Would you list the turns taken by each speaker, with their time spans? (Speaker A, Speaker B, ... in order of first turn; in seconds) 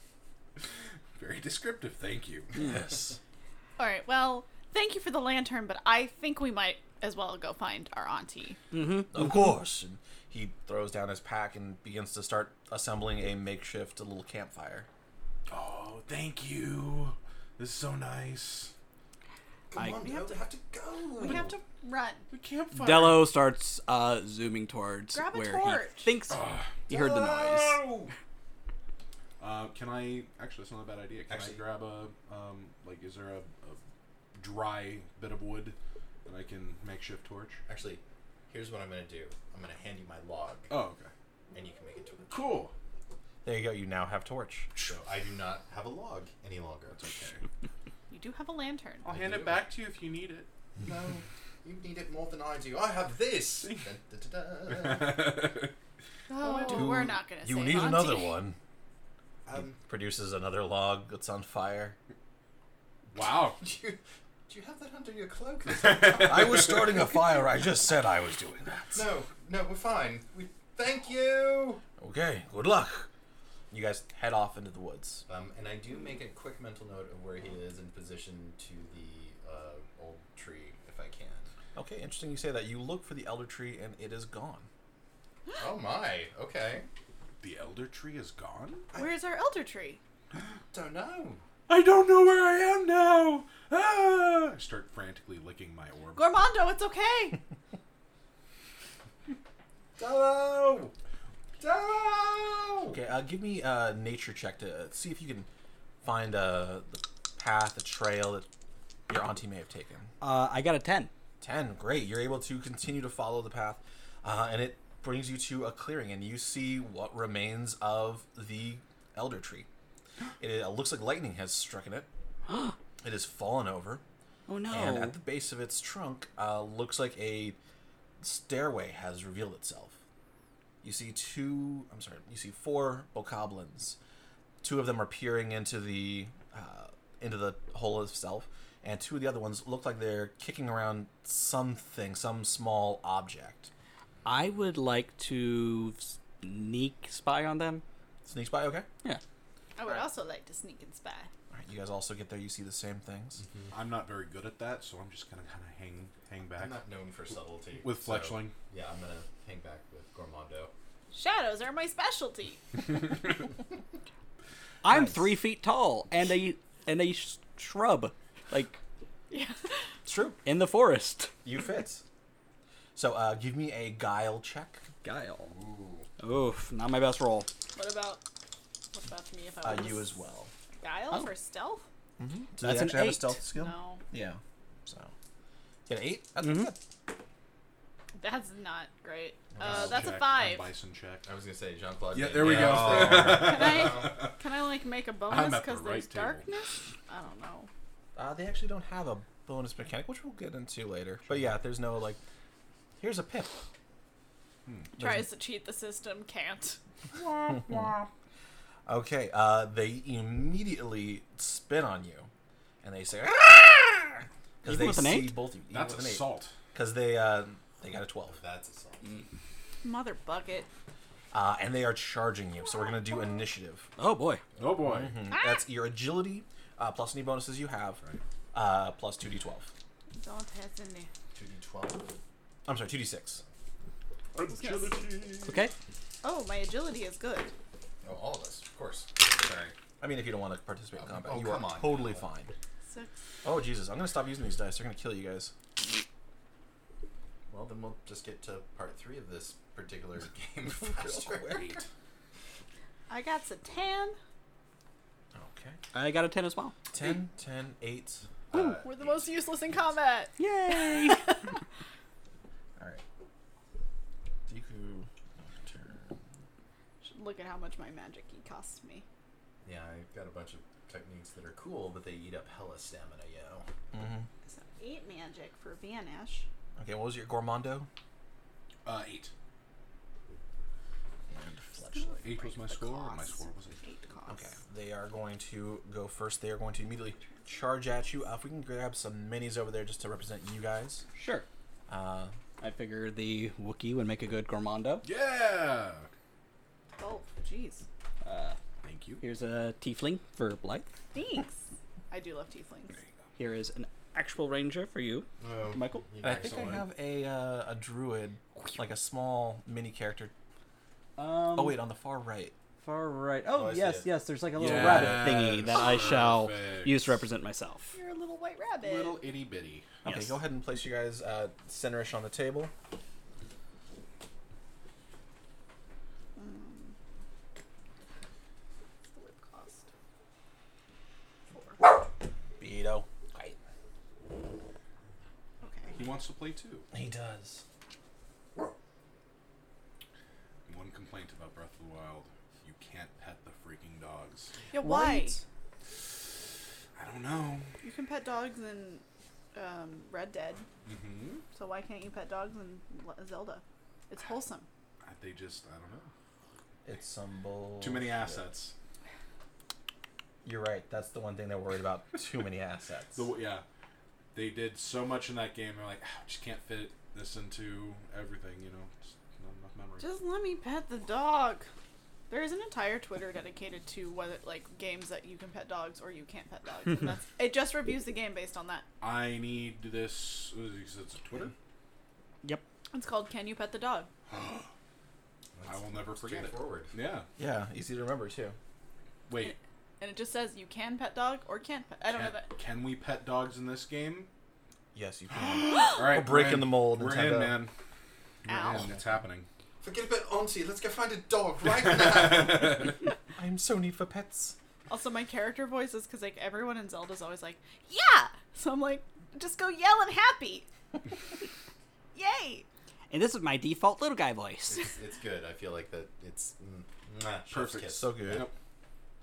Speaker A: 0.6-2.6, 15.5-18.7, 22.3-23.3, 26.3-26.8, 29.4-33.8, 34.4-37.6, 40.7-41.1, 42.3-42.7, 46.9-47.4, 49.0-50.5, 53.6-53.9, 54.7-55.7, 63.1-63.6, 65.8-66.6, 87.4-88.9, 91.7-96.3, 153.7-156.8, 157.8-158.5, 189.6-191.3, 192.1-194.3, 195.3-196.4, 204.7-204.9, 215.7-216.5, 224.6-225.1, 234.3-235.6, 278.9-279.3, 282.2-283.8, 295.0-296.1, 298.8-299.2, 306.4-306.8, 314.5-317.2, 318.8-319.9, 335.9-336.9, 340.6-344.5, 346.9-347.7, 350.9-351.4, 355.0-356.1, 357.8-358.7, 363.1-363.6, 364.3-370.1, 379.0-381.5, 384.3-384.7, 385.6-387.3, 389.3-389.6, 392.1-394.3, 395.4-397.7, 398.4-399.5, 402.1-402.4, 417.5-418.5
Speaker B: 2.5-3.2, 9.1-14.9, 43.4-44.7, 56.6-58.6, 59.8-62.0, 66.2-69.1, 72.0-73.1, 73.7-75.2, 81.8-84.7, 102.9-105.5, 106.0-108.5, 109.1-110.1, 111.4-119.7, 120.4-122.1, 123.0-124.0, 124.7-127.6, 128.2-130.0, 130.8-134.0, 134.6-143.7, 148.2-148.9, 151.5-153.4, 164.9-165.2, 170.0-170.4, 171.4-172.0, 172.9-174.8, 179.6-180.5, 182.2-185.1, 185.9-186.8, 192.4-193.1, 198.2-202.2, 203.0-203.5, 205.0-205.2, 207.2-207.9, 208.9-212.3, 212.8-218.4, 221.3-223.9, 224.9-228.0, 228.5-229.7, 232.7-233.4, 240.0-242.5, 243.4-245.5, 250.7-251.8, 255.3-255.8, 256.9-258.3, 262.8-263.0, 264.5-266.1, 273.9-274.3, 276.8-277.9, 281.3-282.2, 284.3-291.1, 291.9-292.3, 306.2-310.3, 311.5-312.5, 320.0-322.7, 332.6-333.6, 336.9-337.6, 356.9-358.4, 360.4-363.3, 387.4-388.6, 394.9-397.6, 403.4-404.6, 417.8-418.5
Speaker C: 3.8-8.6, 21.2-22.2, 25.1-26.1, 48.1-49.1, 56.3-58.4, 88.9-90.0, 96.1-97.4, 149.8-151.3, 161.1-162.6, 169.3-169.7, 177.8-178.2, 178.9-180.1, 180.8-181.8, 183.6-184.0, 188.2-190.7, 193.2-197.7, 205.0-206.8, 219.8-220.7, 222.6-223.4, 225.3-225.6, 230.2-231.1, 234.5-235.0, 236.2-237.5, 242.9-243.1, 253.1-254.2, 258.5-261.6, 267.0-269.0, 274.5-276.5, 281.9-284.6, 297.0-297.9, 301.1-303.0, 317.9-319.2, 326.4-326.9, 329.1-329.9, 331.5-331.8, 335.6-336.0, 344.7-345.4, 347.8-350.7, 351.5-354.7, 370.0-371.7, 372.3-378.9, 382.9-384.1, 389.4-392.5, 398.5-398.9, 404.9-410.7, 412.1-412.6
Speaker D: 8.7-9.3, 19.8-20.2, 22.7-27.8, 110.2-111.1, 122.5-122.8, 124.5-125.2, 144.2-147.8, 164.8-168.8, 170.4-171.3, 175.0-175.5, 176.2-177.5, 182.6-183.4, 186.4-186.7, 214.6-215.4, 224.0-224.4, 235.4-235.7, 255.9-256.7, 260.4-261.4, 291.1-291.4, 292.6-295.0, 298.2-298.6, 299.2-300.9, 303.4-306.0, 311.2-311.8, 312.8-317.9, 320.0-320.4, 344.8-345.4, 413.1-414.9
Speaker E: 19.7-21.5, 26.9-28.1, 31.3-31.6, 37.7-40.7, 41.5-42.4, 44.8-47.1, 49.1-49.6, 50.8-55.3, 59.5-59.8, 63.6-66.6, 68.9-71.8, 75.3-81.5, 85.6-86.9, 90.7-91.4, 100.0-100.9, 101.6-103.0, 156.6-160.7, 175.7-176.0, 191.2-194.2, 218.3-219.2, 231.3-232.1, 238.0-239.8, 241.0-242.2, 247.5-251.8, 258.5-259.3, 269.6-273.7, 305.4-306.9, 313.4-315.1, 385.5-386.9, 399.8-402.9, 414.6-418.4